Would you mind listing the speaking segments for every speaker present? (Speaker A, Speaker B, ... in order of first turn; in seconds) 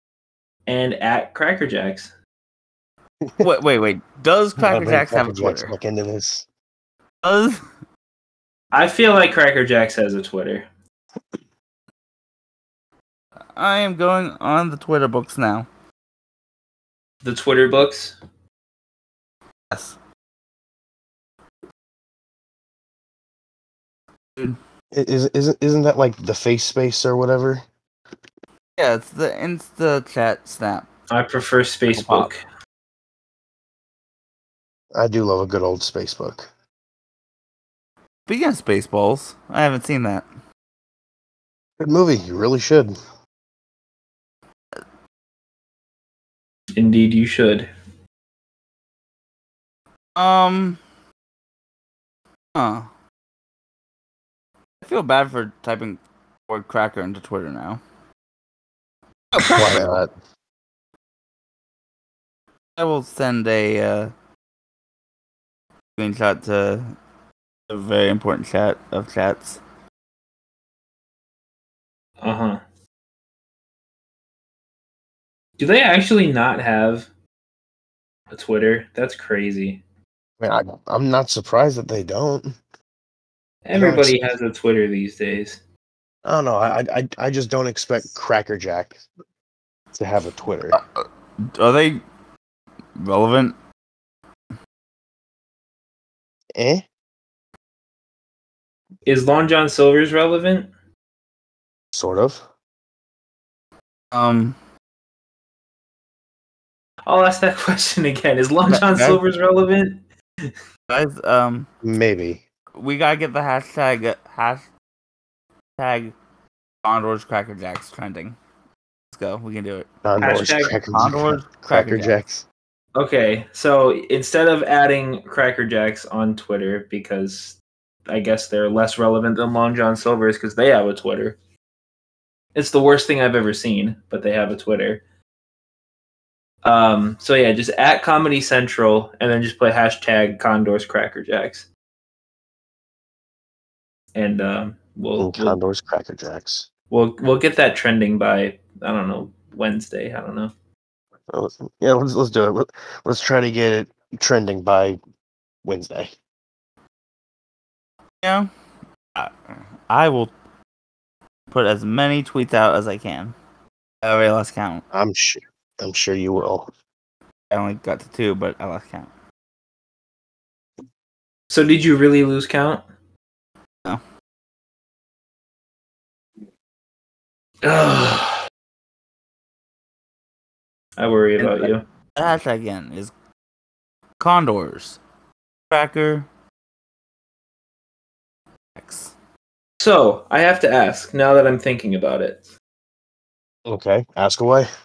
Speaker A: 0.7-2.1, 8.7-10.7, 17.2-18.2, 31.1-32.4, 46.7-47.7, 72.2-72.6, 75.6-77.1, 78.3-79.8, 83.6-85.6, 99.0-100.7, 107.0-110.5, 120.2-120.8, 122.9-131.4, 132.5-135.0, 136.6-141.7, 144.1-145.6, 146.9-150.5, 171.5-172.8, 177.6-178.4, 181.0-181.8, 189.8-192.4
Speaker B: 3.4-5.7, 7.2-7.6, 13.6-15.7, 19.7-20.0, 28.8-30.9, 31.9-32.3, 38.3-40.2, 50.1-50.8, 52.5-52.9, 54.8-57.8, 59.3-60.0, 62.8-64.1, 66.0-66.9, 67.7-69.6, 90.7-92.0, 93.0-93.5, 104.1-104.5, 108.7-109.2, 110.9-111.7, 112.8-114.7, 115.8-116.1, 116.8-118.4, 119.1-119.9, 120.9-122.1, 158.2-158.5, 159.9-160.3, 161.5-163.3, 164.0-164.8, 167.5-169.1, 181.4-183.1, 184.2-185.0, 185.7-186.3, 188.8-189.1
Speaker C: 4.6-6.5, 24.9-27.6, 34.9-36.5, 41.8-42.9, 59.4-60.1, 80.4-82.5, 83.7-84.3, 86.2-89.0, 89.9-90.8, 96.5-96.8, 101.9-102.4, 111.8-112.4, 120.0-122.4, 145.2-146.7, 151.3-155.0, 155.6-156.1, 164.9-166.7, 193.7-194.7